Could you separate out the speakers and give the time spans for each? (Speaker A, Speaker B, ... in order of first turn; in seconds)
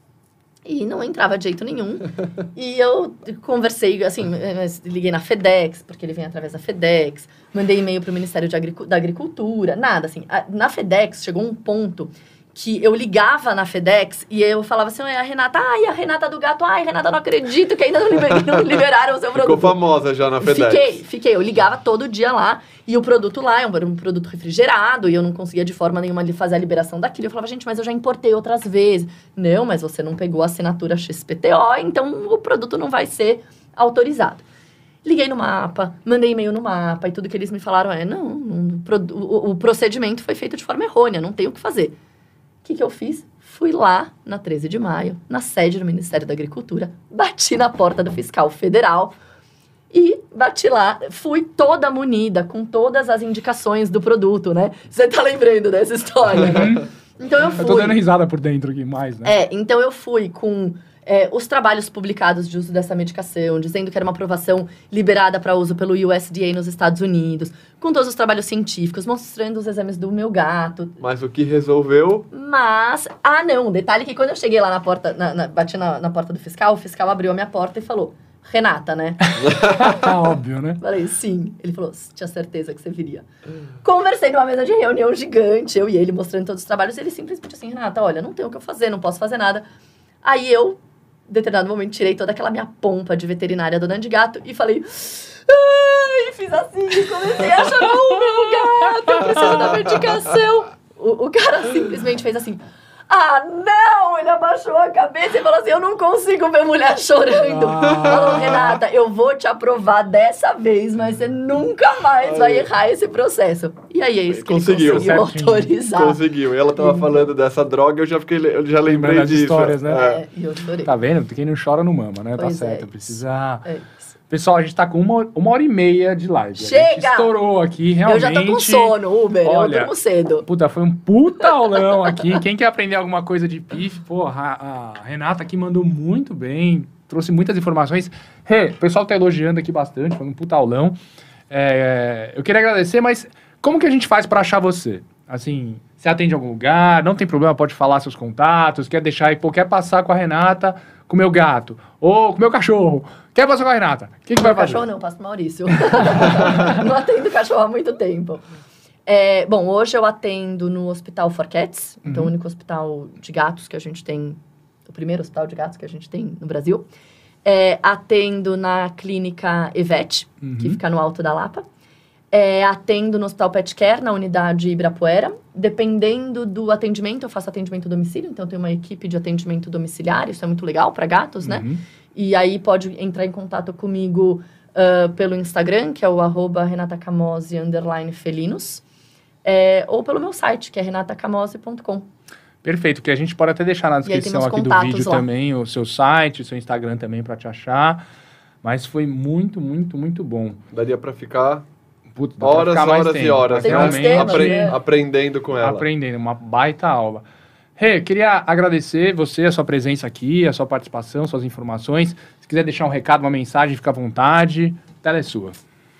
Speaker A: 0.7-19.8, 20.4-34.4, 35.0-41.9, 42.6-49.1, 49.9-58.0, 59.2-71.0, 72.3-80.2, 80.8-83.2, 83.8-89.6, 90.2-116.2, 116.8-117.2, 119.9-120.9, 122.4-124.1, 126.6-127.3, 128.1-130.5, 131.8-132.2, 154.4-158.4, 159.1-166.8, 167.4-171.6, 172.3-188.8, 189.4-192.1, 194.1-195.2, 203.6-204.8
Speaker B: 19.3-21.0, 71.0-72.3, 108.1-108.4, 112.2-112.7, 114.3-115.1, 115.9-120.2, 200.7-201.7, 202.4-205.8
Speaker C: 56.4-56.8, 57.6-59.3, 79.2-80.8, 99.1-99.4, 107.5-108.5, 114.8-115.7, 118.8-120.0, 120.8-123.7, 124.3-129.9, 130.4-141.0, 141.5-154.8, 156.0-156.8, 170.4-170.8, 181.4-181.8, 192.6-198.0, 198.6-200.6, 202.2-204.8, 205.6-207.2, 207.8-215.6